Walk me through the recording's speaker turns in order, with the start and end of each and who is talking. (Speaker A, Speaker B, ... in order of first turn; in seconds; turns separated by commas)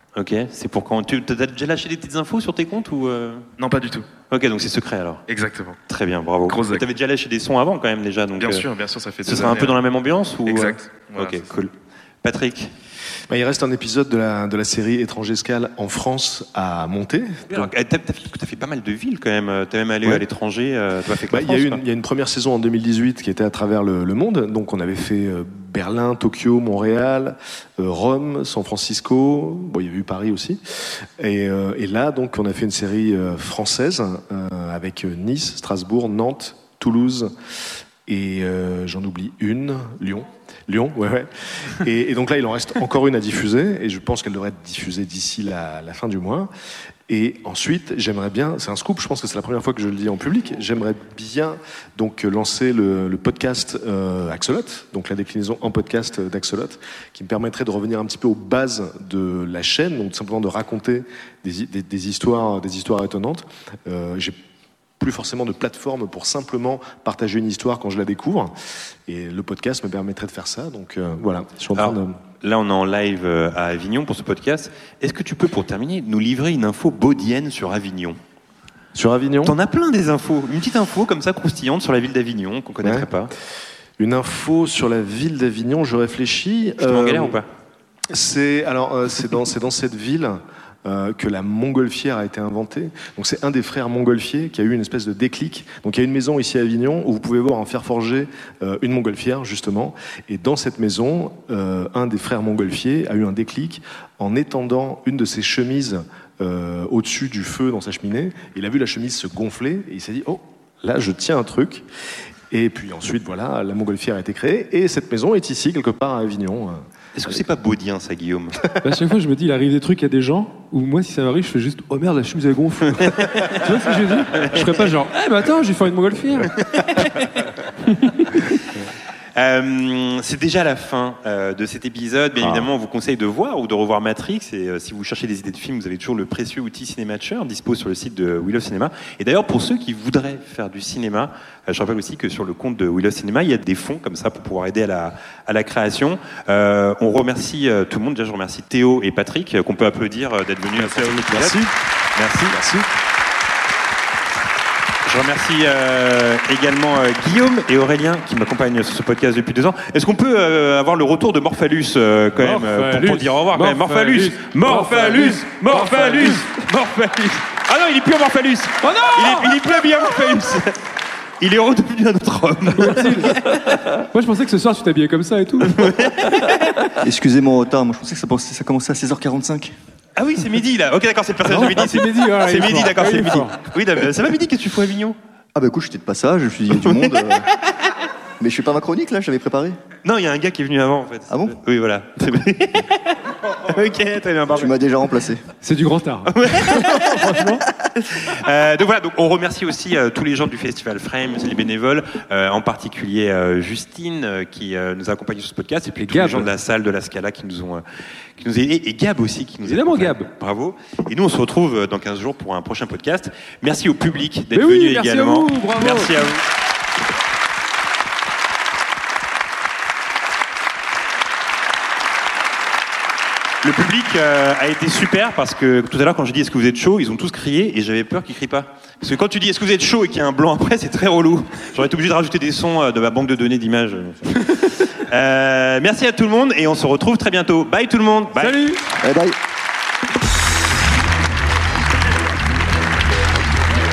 Speaker A: 0.2-3.5, Speaker B: 3.6-4.1, Speaker A: 4.3-5.2, Speaker B: 5.3-5.8, Speaker A: 5.9-8.7, Speaker B: 6.5-6.9, Speaker B: 8.4-9.8, Speaker A: 9.2-11.7, Speaker B: 10.4-11.4, Speaker A: 12.2-12.7, Speaker C: 13.3-17.7, Speaker A: 17.5-21.8, Speaker C: 21.3-37.3, Speaker C: 38.1-46.5, Speaker C: 47.1-64.4, Speaker C: 65.0-72.2, Speaker A: 71.8-78.2, Speaker C: 78.9-79.6, Speaker A: 79.4-83.3, Speaker C: 82.8-83.1, Speaker C: 84.0-87.4, Speaker A: 86.8-87.5, Speaker C: 88.1-111.8, Speaker C: 112.5-117.4, Speaker A: 117.2-118.7, Speaker D: 118.8-126.5, Speaker A: 123.1-123.6, Speaker A: 124.3-125.0, Speaker A: 126.6-127.3, Speaker A: 129.4-151.7, Speaker C: 150.8-151.7, Speaker A: 152.2-152.6, Speaker C: 152.5-152.9, Speaker A: 155.1-170.8, Speaker D: 162.4-166.5, Speaker D: 168.8-169.6, Speaker A: 171.4-173.6, Speaker D: 172.8-173.4, Speaker D: 174.1-175.9, Speaker A: 175.7-176.4, Speaker E: 177.0-179.7, Speaker A: 180.2-185.2, Speaker D: 181.5-183.6, Speaker E: 185.6-187.5, Speaker A: 186.8-187.2, Speaker E: 188.4-189.8, Speaker A: 190.0-194.7, Speaker E: 191.3-191.6, Speaker E: 194.5-195.4, Speaker D: 195.6-197.6, Speaker A: 196.3-216.4, Speaker D: 206.0-206.5, Speaker D: 209.6-210.3, Speaker D: 214.5-216.1, Speaker A: 223.6-238.7, Speaker D: 238.4-238.8, Speaker E: 239.0-239.3